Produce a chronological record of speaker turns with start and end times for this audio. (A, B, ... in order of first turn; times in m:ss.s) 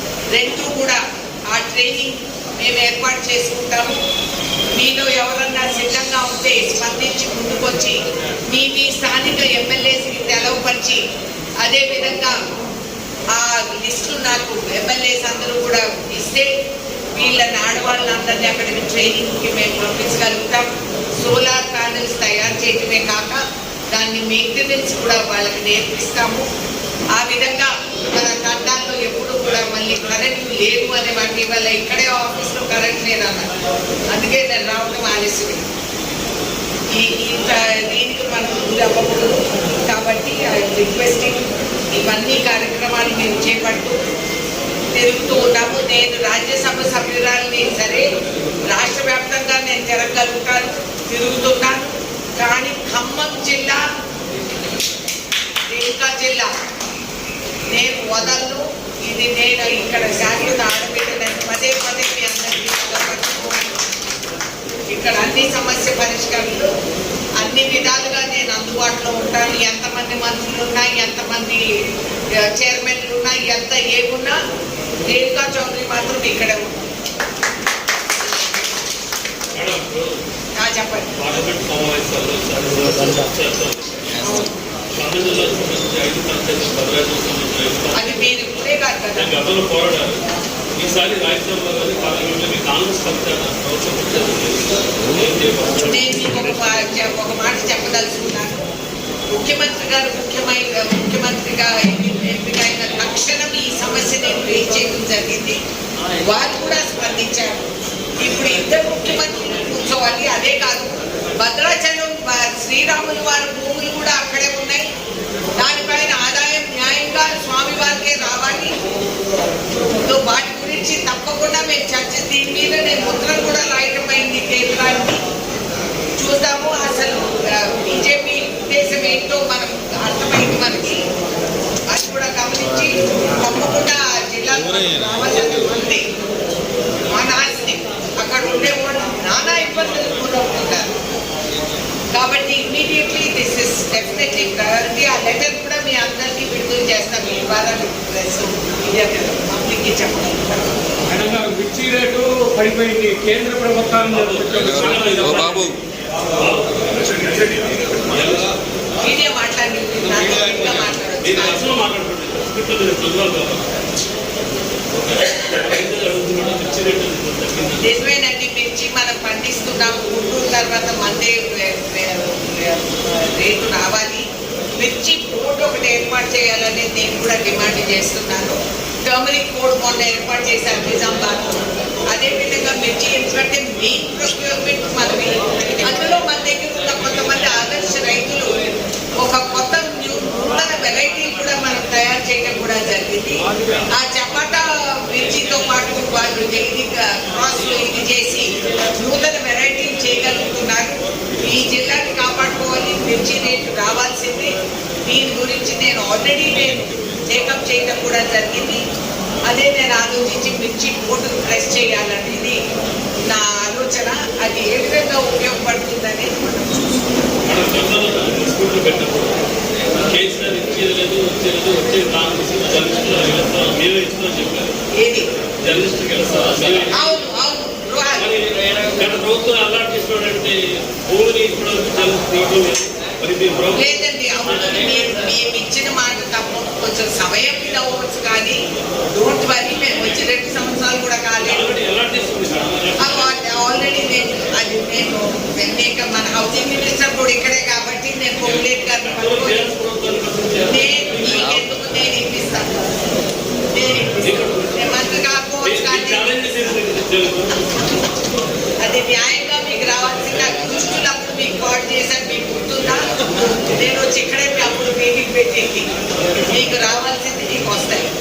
0:00.3-0:04.0 A
0:04.8-0:11.0 A
0:11.6-0:12.4 A
0:13.3-0:16.5 A
0:17.2-0:20.7 A
0:21.2-0:23.4 A
0:23.9-0:26.4 A
0:27.2-0:33.5 A
0:34.1-0:35.7 A
0:36.9-0:44.0 A
0:44.9-0:48.1 A
0:48.7-0:53.8 A
0:55.7-0:56.5 A
0:57.7-1:03.8 A
1:04.9-1:06.7 A
1:07.4-1:11.8 A
1:12.3-1:14.4 A
1:15.0-1:16.8 A
1:19.5-1:20.2 B
1:20.6-1:21.1 A
1:21.2-1:24.3 B
1:24.2-1:24.5 A
1:24.9-1:28.3 B
1:27.9-1:29.3 A
1:29.2-1:30.2 B
1:30.8-1:36.4 B
1:35.8-1:38.7 A
1:39.3-1:45.6 A
1:46.2-1:54.9 A
1:55.6-1:58.8 A
2:00.0-2:05.2 A
2:06.2-2:11.0 A
2:11.9-2:16.0 A
2:17.1-2:21.0 A
2:22.1-2:30.8 A
2:31.1-2:35.2 C
2:34.1-2:35.8 B
2:36.4-2:38.5 B
2:39.0-2:41.7 A
2:41.2-2:43.7 B
2:44.9-2:48.0 B
2:47.8-2:54.2 A
2:54.8-3:08.6 A
3:09.2-3:13.4 A
3:13.9-3:24.6 A
3:25.1-3:28.8 A
3:29.5-3:32.6 A
3:33.3-3:37.0 A
3:37.5-3:44.8 B
3:44.9-3:45.3 A
3:45.6-3:47.2 B
3:46.9-3:48.3 A
3:48.2-3:55.1 B
3:53.7-3:58.6 A
3:59.1-4:01.7 A
4:01.4-4:03.3 B
4:03.0-4:09.6 A
4:09.1-4:11.6 B
4:10.7-4:13.0 A
4:13.7-4:16.3 A
4:14.0-4:14.9 B
4:15.6-4:17.7 B
4:18.8-4:25.9 A
4:26.5-4:28.1 A